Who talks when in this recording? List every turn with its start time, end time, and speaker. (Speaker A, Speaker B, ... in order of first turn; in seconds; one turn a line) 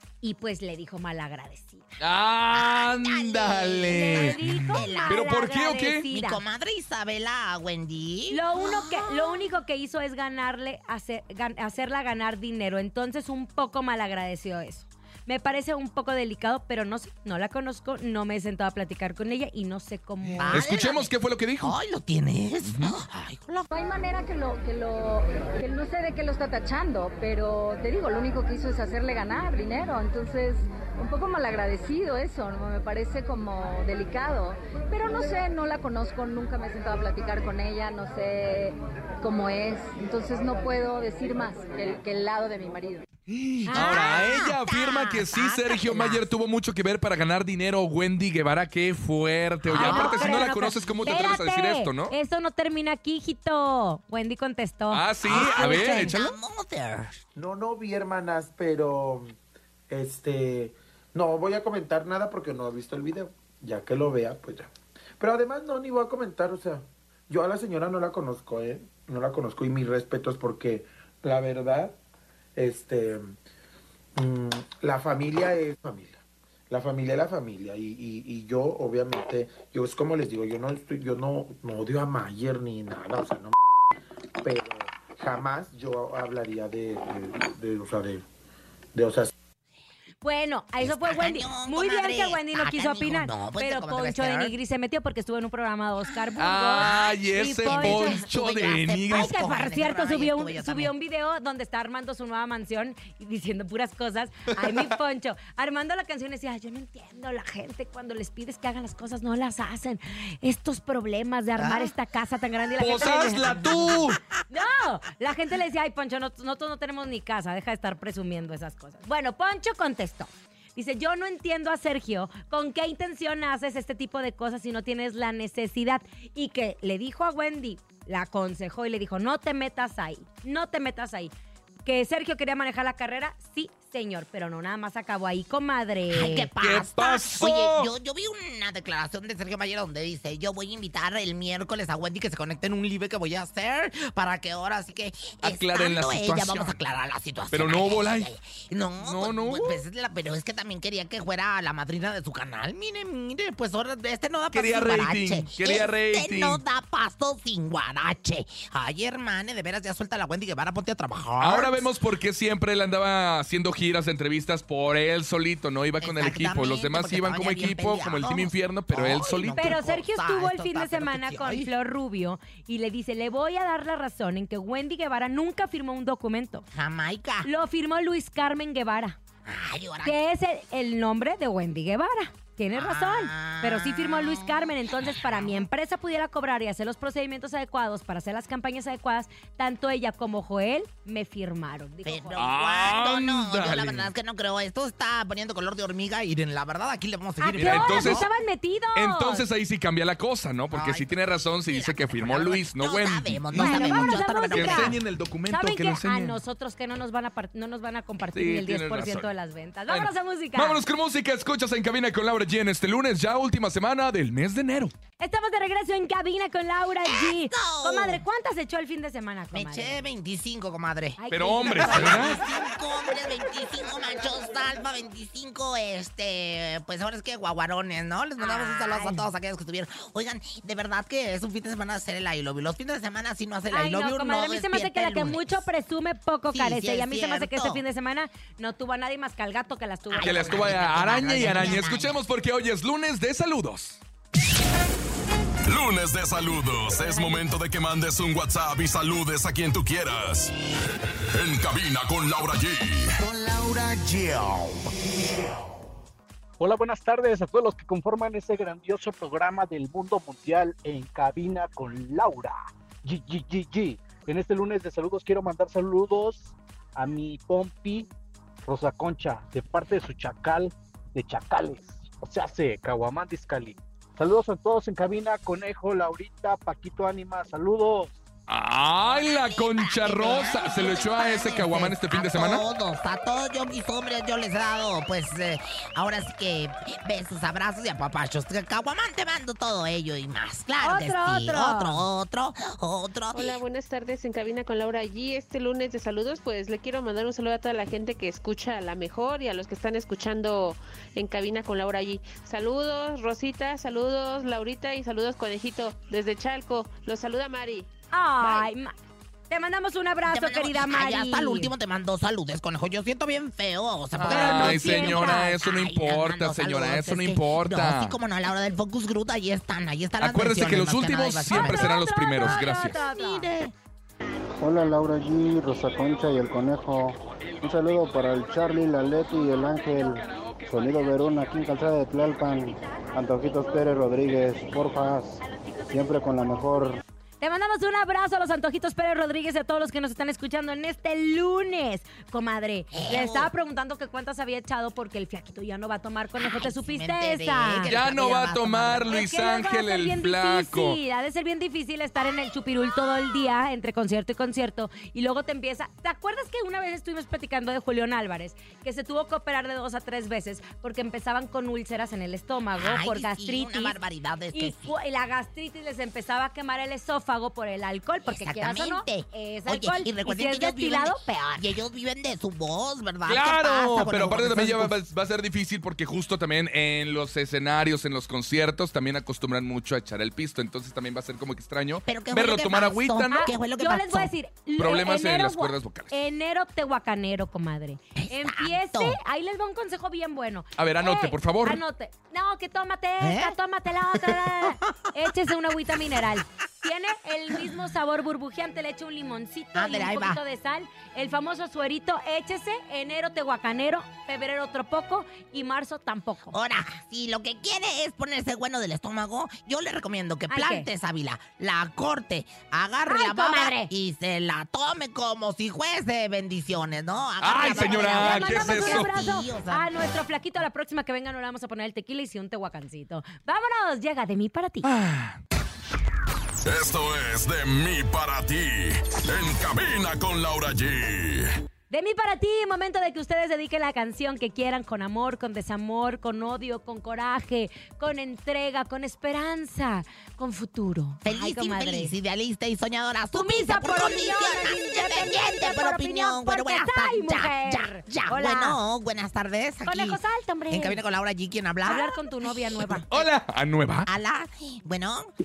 Speaker A: 0.2-1.9
Speaker B: 2.0-6.0
Speaker C: 2.5-5.2
Speaker A: 3.9-6.4
Speaker C: 6.1-9.4
Speaker A: 8.3-20.6
Speaker C: 20.4-23.7
Speaker B: 20.4-21.8
Speaker B: 22.7-23.0
Speaker D: 23.7-43.1
Speaker B: 43.3-52.1
Speaker A: 43.7-44.3
Speaker C: 43.7-46.3
Speaker C: 49.6-51.4
Speaker A: 49.7-56.2
Speaker B: 54.9-56.4
Speaker C: 55.2-57.2
Speaker E: 57.4-59.4
Speaker E: 59.9-72.0
Speaker E: 72.6-73.3
Speaker E: 74.2-83.5
Speaker E: 84.4-88.2
Speaker E: 89.0-89.3
Speaker A: 90.2-98.2
Speaker C: 90.8-94.5
Speaker B: 96.4-99.3
Speaker C: 96.8-100.9
Speaker A: 99.1-113.9
Speaker C: 111.6-111.9
Speaker B: 112.8-114.2
Speaker C: 113.5-113.8
Speaker A: 114.5-131.3
Speaker A: 131.8-136.5
Speaker C: 136.1-161.9
Speaker B: 136.6-137.9
Speaker B: 145.4-146.8
Speaker B: 147.5-148.3
Speaker B: 149.0-149.8
Speaker B: 154.5-156.6
Speaker B: 161.4-169.8
Speaker C: 166.0-171.7
Speaker A: 169.6-176.7
Speaker C: 176.7-177.5
Speaker A: 177.4-179.2
Speaker C: 179.4-180.2
Speaker A: 180.1-192.4
Speaker C: 182.7-185.7
Speaker C: 192.1-198.3
Speaker B: 192.4-194.1
Speaker A: 197.4-199.4
Speaker B: 197.6-198.3
Speaker B: 198.9-206.4
Speaker C: 200.7-205.0
Speaker A: 203.6-210.8
Speaker B: 208.3-209.3
Speaker B: 209.9-214.9
Speaker A: 215.2-220.1
Speaker C: 217.1-218.2
Speaker C: 219.5-235.7
Speaker A: 221.2-222.4
Speaker B: 221.3-222.4
Speaker A: 228.4-229.3
Speaker A: 233.7-241.8
Speaker C: 236.5-237.8
Speaker C: 240.1-242.2
Speaker B: 240.2-244.0
Speaker F: 245.7-250.5
Speaker A: 247.0-247.4
Speaker F: 251.3-253.2
Speaker G: 256.6-268.1
Speaker G: 268.6-278.2
Speaker B: 278.5-282.6
Speaker C: 279.1-293.6
Speaker A: 290.8-292.0
Speaker H: 293.3-307.9
Speaker A: 308.1-308.9
Speaker H: 308.4-308.7
Speaker A: 309.5-311.7
Speaker C: 310.3-323.7
Speaker B: 314.2-318.1
Speaker A: 314.2-315.5
Speaker B: 320.2-323.0
Speaker A: 321.5-323.5
Speaker I: 324.6-337.0
Speaker A: 337.4-347.9
Speaker C: 342.9-343.5
Speaker C: 346.4-349.2
Speaker B: 347.9-351.0
Speaker A: 349.1-364.0
Speaker C: 362.8-364.9
Speaker A: 364.5-371.7
Speaker C: 368.3-374.9
Speaker B: 373.3-383.5
Speaker C: 382.1-384.3
Speaker A: 383.3-406.6
Speaker B: 384.8-386.1
Speaker C: 388.2-389.2
Speaker B: 390.8-391.8
Speaker C: 393.2-393.6
Speaker C: 394.2-394.7
Speaker C: 399.8-400.4
Speaker C: 406.5-419.9
Speaker A: 410.5-410.9
Speaker A: 413.1-413.9
Speaker B: 417.4-419.1
Speaker A: 417.6-424.9
Speaker B: 424.8-425.4
Speaker F: 426.6-431.5
Speaker A: 431.9-442.1
Speaker C: 441.2-453.2
Speaker A: 443.3-448.8
Speaker A: 449.9-451.0
Speaker A: 451.8-453.1
Speaker B: 453.1-454.1
Speaker C: 454.1-455.3